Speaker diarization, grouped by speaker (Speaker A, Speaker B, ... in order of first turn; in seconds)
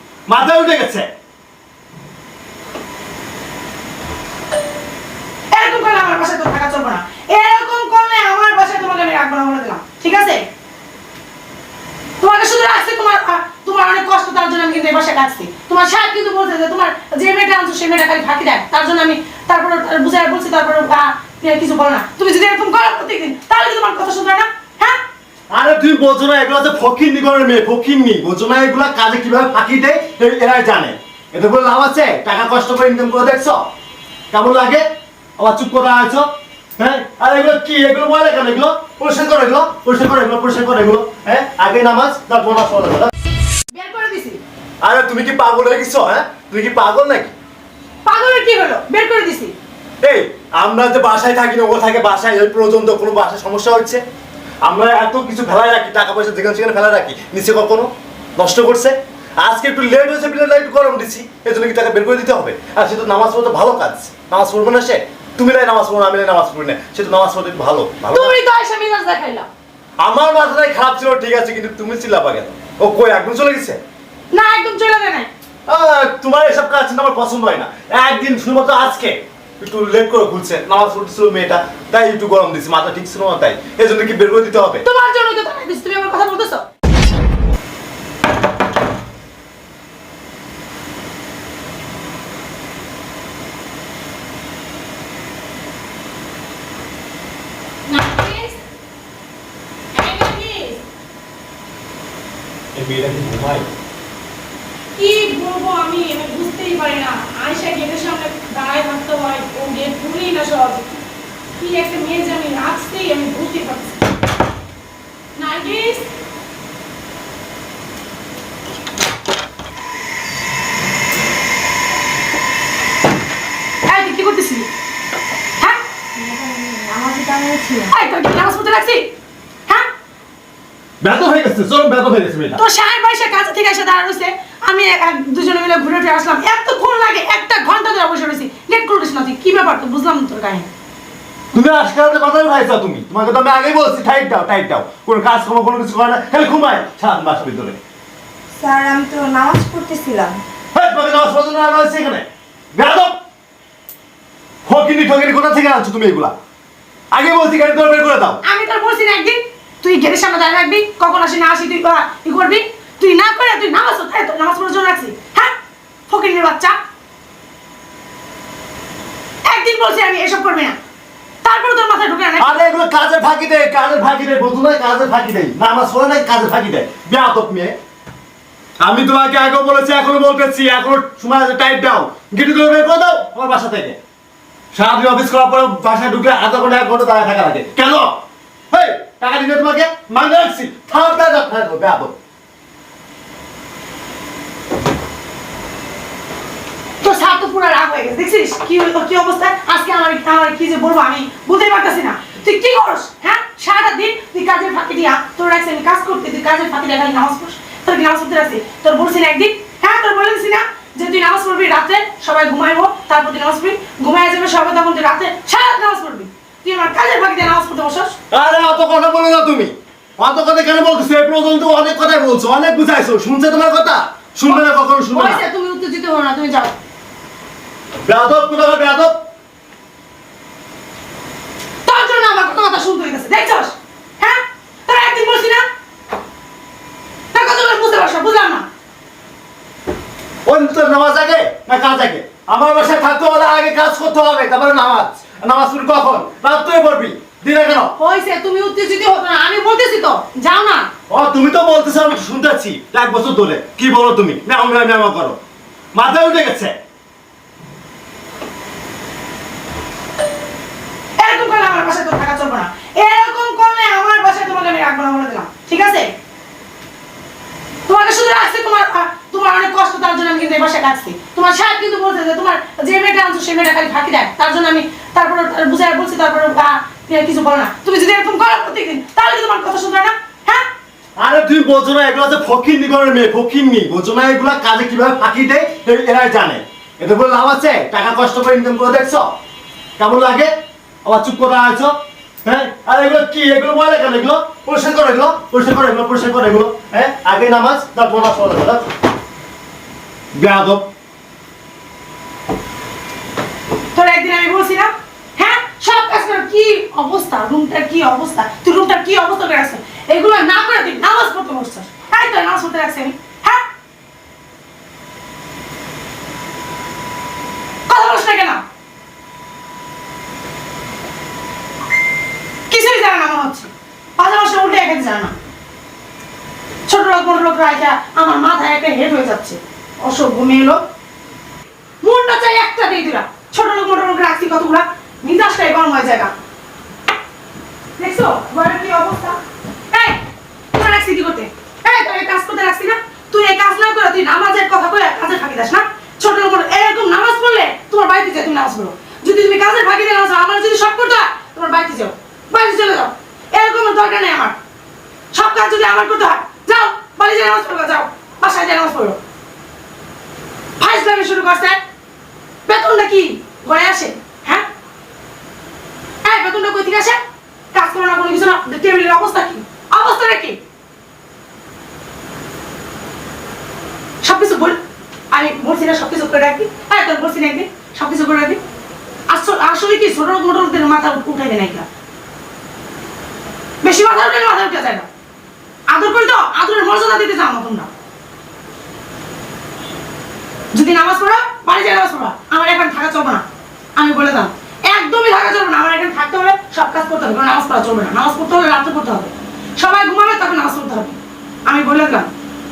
Speaker A: 0.3-1.1, 25.5-33.7, 34.3-34.9, 35.4-43.1, 44.8-47.3, 50.0-54.0, 54.6-68.4, 70.0-73.8, 75.7-84.8, 102.7-103.7, 131.0-132.6, 141.5-147.8, 150.7-153.2, 154.7-156.3, 157.1-158.4, 172.4-177.7, 178.8-184.0, 184.7-188.2, 188.7-192.1, 218.3-225.4, 228.0-229.2, 240.4-247.9, 251.1-255.4, 255.9-256.7, 281.2-289.3, 290.0-290.5, 291.0-298.9, 300.3-300.9
Speaker B: 5.5-10.4, 12.2-25.0, 43.7-44.4, 48.0-49.5, 68.1-69.5, 74.3-75.3, 84.8-86.6, 97.9-98.6, 99.9-100.8, 105.0-110.9, 111.6-114.0, 115.3-116.1, 123.9-124.7, 127.9-129.1, 132.6-140.7, 158.4-165.5, 166.1-166.8, 169.5-170.8, 171.4-172.6, 197.0-218.1, 224.5-226.7, 231.8-235.6, 237.3-238.7, 248.0-250.9, 261.2-266.1, 267.9-280.6, 303.9-313.6, 317.9-318.6, 322.7-325.3, 326.9-330.8, 332.0-336.3, 338.0-339.4, 339.9-340.2, 340.7-354.6, 355.3-359.2, 360.8-361.8, 362.6-364.6, 366.2-367.2, 367.7-370.6, 374.2-374.8, 375.3-378.6, 379.3-381.9, 383.8-385.1, 385.9-387.9, 390.7-393.4, 394.0-401.1, 401.7-402.3
Speaker C: 126.2-127.9, 148.6-150.4